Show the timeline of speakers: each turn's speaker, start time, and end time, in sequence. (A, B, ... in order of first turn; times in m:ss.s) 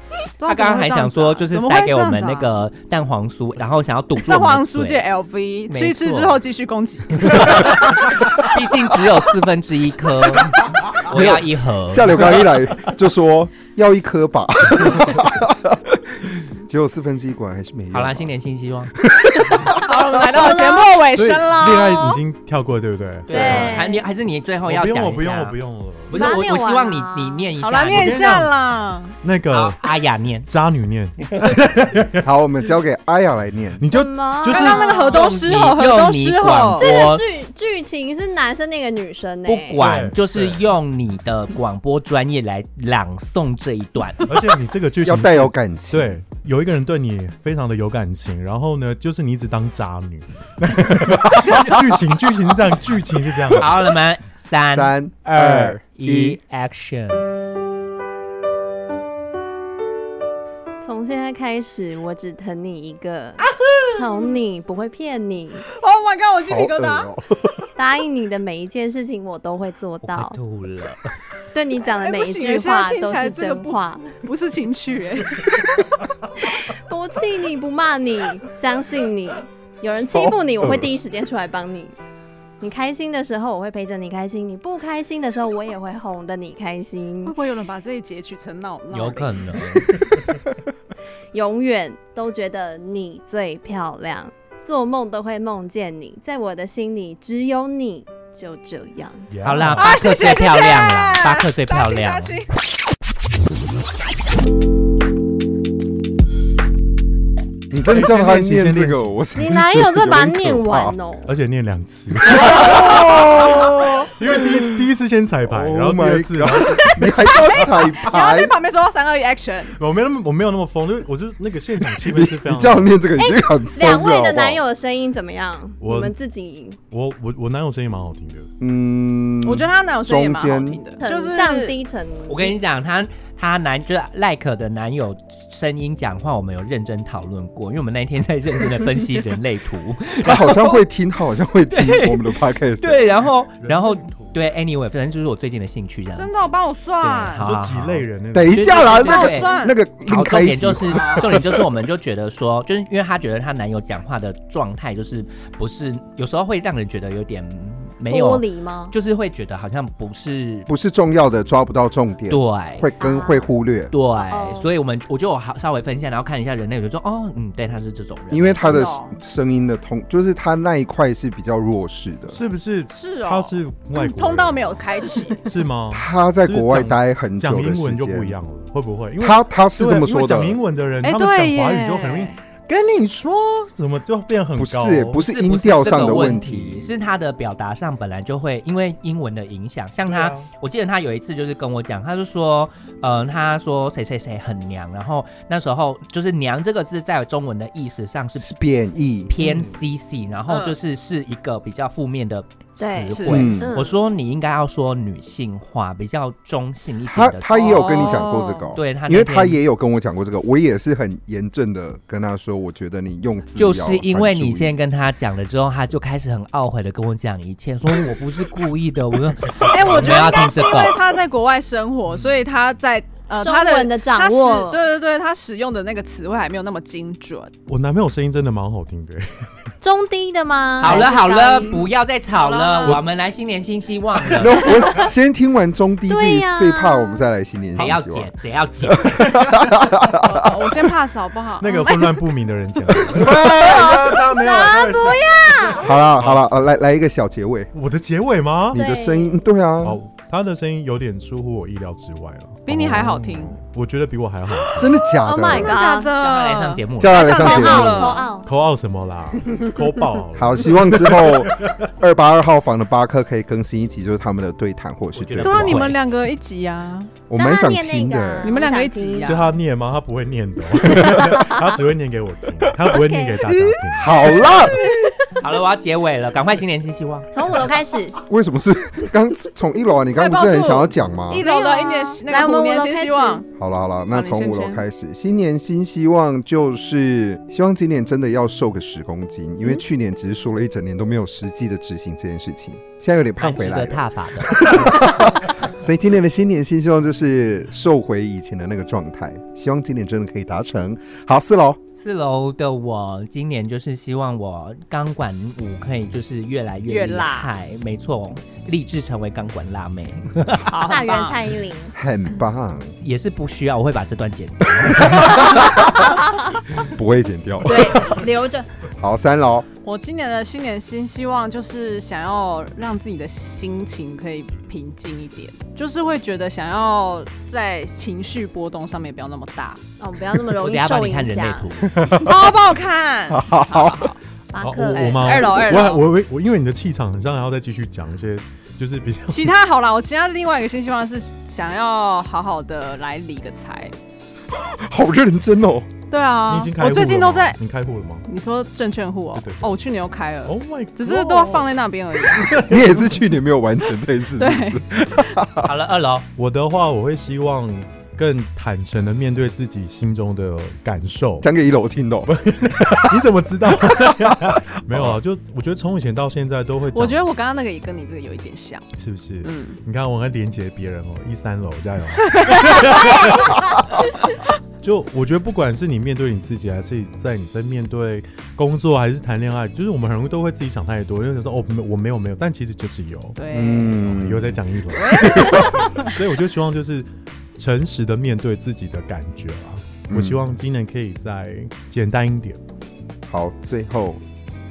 0:00.4-0:02.5 A
0:00.4-0:05.1 B
0:04.2-0:07.8 A
0:05.7-0:06.4 B
0:07.2-0:12.4 B
0:11.1-0:18.4 C
0:17.9-0:18.9 B
0:19.0-0:19.7 C
0:19.7-0:21.0 D
0:19.8-0:22.2 A
0:21.1-0:23.8 E
0:23.3-0:25.6 B
0:23.3-0:24.1 D
0:24.6-0:26.4 E
0:26.1-0:28.5 B
0:26.1-0:27.5 D
0:27.6-0:29.2 A
0:27.9-0:28.5 E
0:29.2-0:29.8 E
0:29.5-0:30.5 B
0:30.5-0:32.3 E
0:32.2-0:33.9 C
0:33.8-0:34.9 E
0:33.9-0:35.2 D
0:34.5-0:36.9 A
0:35.1-0:37.2 B
0:36.8-0:39.8 D
0:39.4-0:44.3 B
0:39.8-0:40.6 E
0:44.3-0:53.8 E
0:45.0-0:46.2 C
0:53.5-0:57.2 B
0:54.7-0:56.4 C
1:00.8-1:05.7 D
1:03.6-1:04.4 A
1:05.7-1:07.1 A
1:06.4-1:07.6 C
1:07.8-1:10.4 D
1:10.0-1:11.1 B
1:11.5-1:14.0 D
1:11.8-1:15.5 A
1:16.4-1:22.0 D
1:19.9-1:20.9 C
1:22.6-1:27.4 D
1:27.3-1:29.4 A
1:28.9-1:30.0 B
1:31.3-1:39.3 D
1:39.3-1:40.0 E
1:39.4-1:42.4 B
1:39.8-1:42.5 A
1:47.7-1:51.0 C
1:47.9-1:49.2 E
1:49.4-1:51.3 D
1:51.3-1:57.2 E
1:52.3-1:54.6 C
1:55.5-1:58.6 C
1:56.6-1:59.8 A
1:59.8-2:03.0 E
2:02.0-2:04.6 C
2:03.2-2:06.8 D
2:05.8-2:06.2 E
2:06.9-2:08.5 E
2:08.6-2:10.8 C
2:09.4-2:11.8 A
2:11.0-2:12.6 D
2:12.3-2:20.8 B
2:20.2-2:23.0 C
2:21.7-2:26.4 B
2:23.6-2:24.3 E
2:26.2-2:27.5 A
2:27.0-2:28.1 B
2:27.4-2:29.3 E
2:28.3-2:31.6 C
2:28.6-2:29.8 A
2:28.8-2:40.7 B
2:30.9-2:31.3 A
2:38.1-2:38.9 D
2:40.7-2:43.9 C
2:42.3-2:42.9 B
2:43.0-2:43.5 D
2:43.9-2:48.9 B
2:44.2-2:44.7 D
2:48.3-2:52.4 C
2:48.7-2:49.2 A
2:52.3-2:54.8 E
2:52.9-2:55.5 A
2:55.4-3:05.2 E
2:55.9-2:58.3 C
2:59.2-3:00.6 C
3:01.0-3:02.4 A
3:04.6-3:06.9 C
3:05.2-3:18.6 B
3:10.0-3:10.5 E
3:18.4-3:19.3 C
3:19.3-3:28.2 B
3:19.4-3:19.8 E
3:20.5-3:20.8 A
3:22.8-3:24.0 D
3:23.1-3:23.6 A
3:23.3-3:23.8 C
3:27.1-3:34.7 C
3:27.5-3:28.7 A
3:28.8-3:29.6 B
3:33.6-3:41.0 B
3:39.6-3:47.5 A
3:43.4-3:44.8 D
3:47.7-3:49.4 E
3:49.8-3:51.9 D
3:50.8-3:54.6 B
3:52.3-3:53.0 A
3:54.3-3:58.3 C
3:54.6-3:55.1 D
3:56.1-3:57.2 D
3:57.8-3:59.1 B
3:58.8-4:00.8 C
4:00.1-4:02.3 A
4:01.6-4:06.5 E
4:03.1-4:03.8 C
4:03.5-4:05.9 D
4:05.8-4:07.7 C
4:07.7-4:08.8 E
4:08.7-4:10.0 C
4:08.7-4:09.4 D
4:09.8-4:15.0 E
4:12.7-4:13.6 A
4:14.8-4:15.8 C
4:15.2-4:16.1 D
4:15.5-4:18.3 A
4:16.2-4:17.3 B
4:17.0-4:18.2 C
4:17.1-4:18.6 D
4:18.4-4:21.9 E
4:20.4-4:25.9 C
4:25.2-4:26.0 B
4:25.4-4:27.1 A
4:27.3-4:28.7 C
4:27.4-4:29.4 D
4:28.4-4:29.6 A
4:29.2-4:34.2 E
4:30.8-4:31.4 C
4:31.2-4:31.8 D
4:32.8-4:33.6 D
4:34.0-4:34.8 C
4:34.7-4:35.2 D
4:35.4-4:37.3 B
4:37.3-4:38.2 D
4:38.3-4:41.4 C
4:40.2-4:43.4 A
4:41.3-4:43.4 D
4:43.6-5:01.8 C
4:44.1-4:44.8 A
4:53.4-4:54.9 B
5:02.0-5:10.8 B
5:06.9-5:07.5 A
5:10.7-5:11.4 A
5:10.9-5:12.0 D
5:11.9-5:12.9 C
5:13.0-5:15.6 B
5:15.5-5:15.9 C
5:15.5-5:16.6 D
5:16.9-5:18.2 C
5:17.6-5:18.7 D
5:19.0-5:19.7 C
5:19.8-5:29.8 A
5:30.0-5:31.7 D
5:30.6-5:32.0 B
5:31.9-5:32.6 C
5:32.2-5:34.2 A
5:33.3-5:34.1 C
5:34.5-5:35.9 D
5:34.6-5:39.5 E
5:34.9-5:36.0 A
5:39.3-5:43.9 A
5:44.5-5:45.9 C
5:46.1-5:47.6 A
5:46.5-5:48.3 E
5:48.3-5:52.6 A
5:49.3-5:49.8 E
5:50.4-5:51.7 E
5:52.2-5:53.2 E
5:52.6-5:55.7 C
5:54.4-5:54.8 A
5:55.6-5:56.3 B
5:56.4-6:01.5 E
6:01.4-6:05.2 C
6:02.3-6:07.2 E
6:06.9-6:08.9 A
6:09.0-6:14.0 E
6:09.4-6:09.8 A
6:12.3-6:13.0 A
6:14.8-6:23.4 E
6:23.4-6:24.0 A
6:23.5-6:24.6 C
6:24.1-6:32.6 E
6:24.9-6:26.1 A
6:25.2-6:25.8 C
6:30.1-6:30.4 C
6:33.3-6:34.2 C